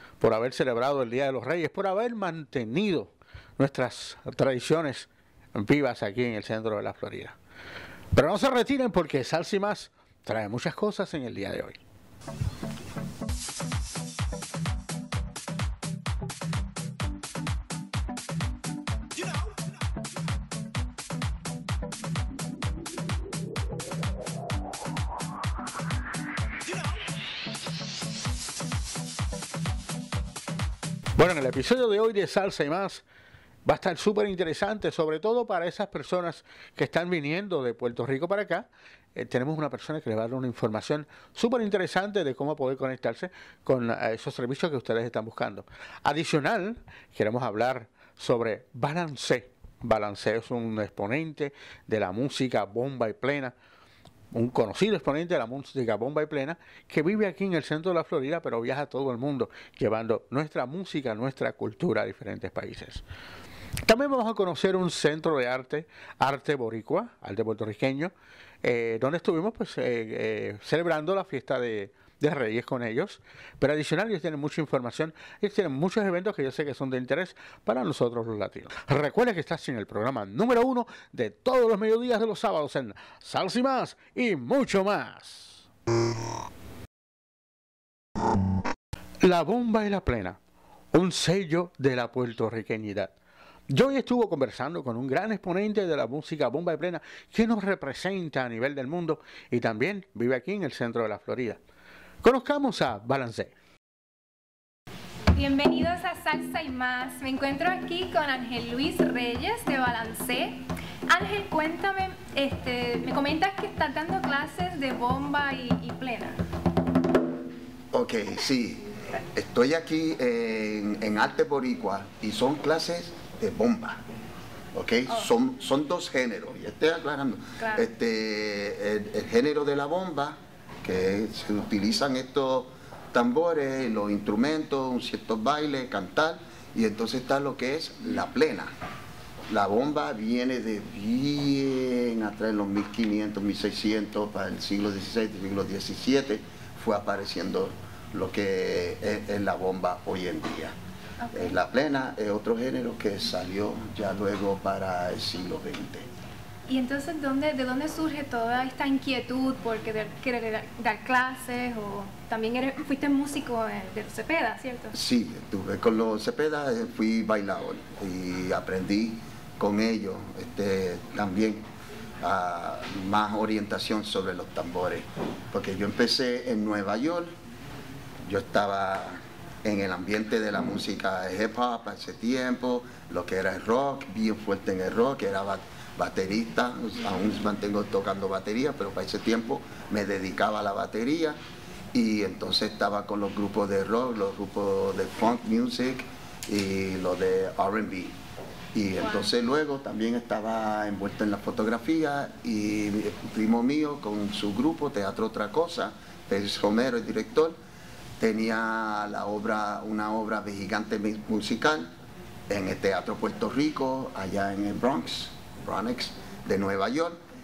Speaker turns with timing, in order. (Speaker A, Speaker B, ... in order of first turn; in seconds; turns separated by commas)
Speaker A: 0.2-7.4, Speaker A: 8.1-11.8, Speaker A: 31.2-33.0, Speaker A: 33.6-53.5, Speaker A: 54.3-63.0, Speaker A: 63.8-68.1, Speaker A: 68.6-85.6, Speaker A: 89.2-90.4, Speaker A: 90.9-93.1, Speaker A: 93.7-101.6, Speaker A: 102.2-103.5, Speaker B: 105.3-116.4, Speaker C: 117.9-124.0, Speaker C: 124.7-138.7, Speaker B: 127.6-127.9, Speaker C: 139.5-150.7, Speaker B: 151.2-151.6, Speaker C: 151.3-156.1, Speaker B: 156.7-164.9, Speaker C: 164.9-171.6, Speaker C: 172.2-177.3, Speaker C: 178.2-191.4, Speaker C: 191.9-198.2, Speaker C: 198.7-207.6, Speaker B: 199.0-199.3, Speaker C: 208.2-211.9, Speaker C: 212.5-217.2